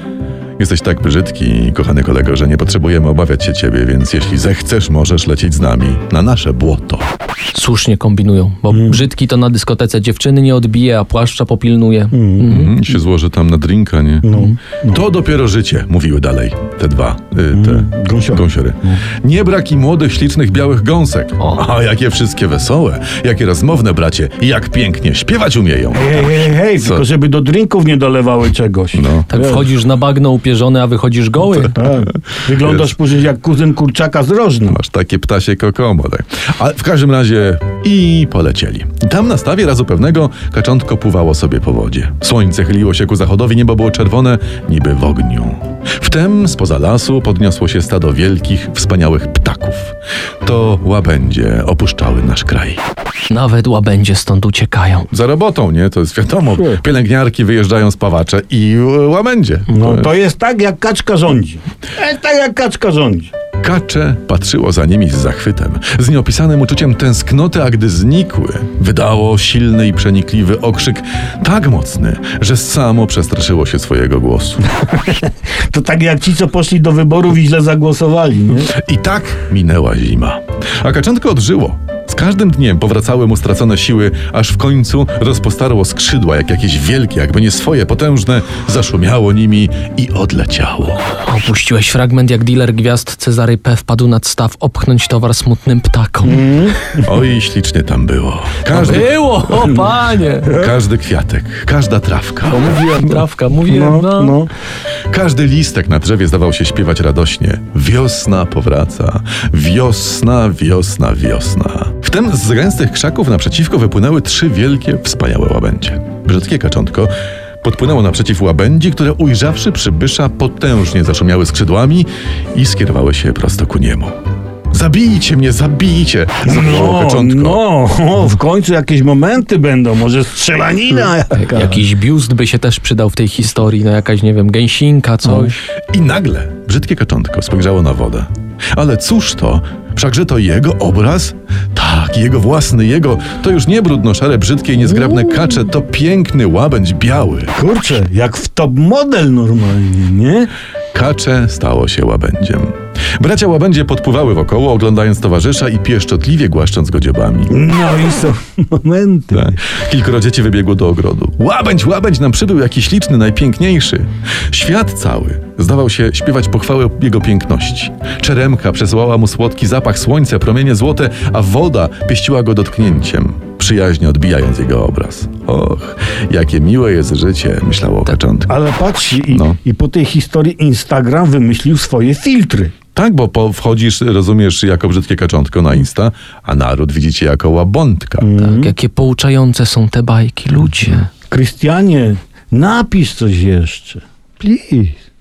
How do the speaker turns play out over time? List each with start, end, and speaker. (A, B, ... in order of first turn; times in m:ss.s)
0:00.6-0:07.1 A
0:07.5-0:12.7 B
0:08.7-0:09.0 C
0:12.1-0:12.5 C
0:12.4-0:14.3 A
0:14.2-0:15.0 C
0:14.9-0:27.0 A
0:17.5-0:19.0 C
0:25.9-0:29.7 C
0:28.9-0:29.3 A
0:29.3-0:31.8 B
0:31.8-0:34.8 C
0:32.6-0:33.0 A
0:34.7-0:52.8 A
0:53.3-0:55.1 B
0:55.1-1:00.1 A
0:56.5-0:56.8 C
0:59.7-1:03.3 C
1:03.6-1:14.7 A
1:14.8-1:18.7 C
1:18.7-1:31.0 A
1:31.2-1:36.5 B
1:36.2-1:37.0 C
1:37.0-1:39.1 A
1:38.7-1:40.6 B
1:40.5-1:42.8 A
1:42.5-1:44.5 C
1:42.8-1:44.4 B
1:45.1-2:04.2 A
2:04.7-2:07.6 A
2:06.4-2:11.8 C
2:11.3-2:15.6 B
2:15.9-2:27.6 A
2:27.6-2:30.5 C
2:30.9-2:37.6 A
2:37.5-2:39.6 C
2:39.3-2:58.6 A
2:58.5-3:02.7 C
2:59.3-2:59.6 A
3:02.9-3:08.3 A
3:08.2-3:08.7 C
3:08.4-3:11.1 B
3:11.3-3:15.0 C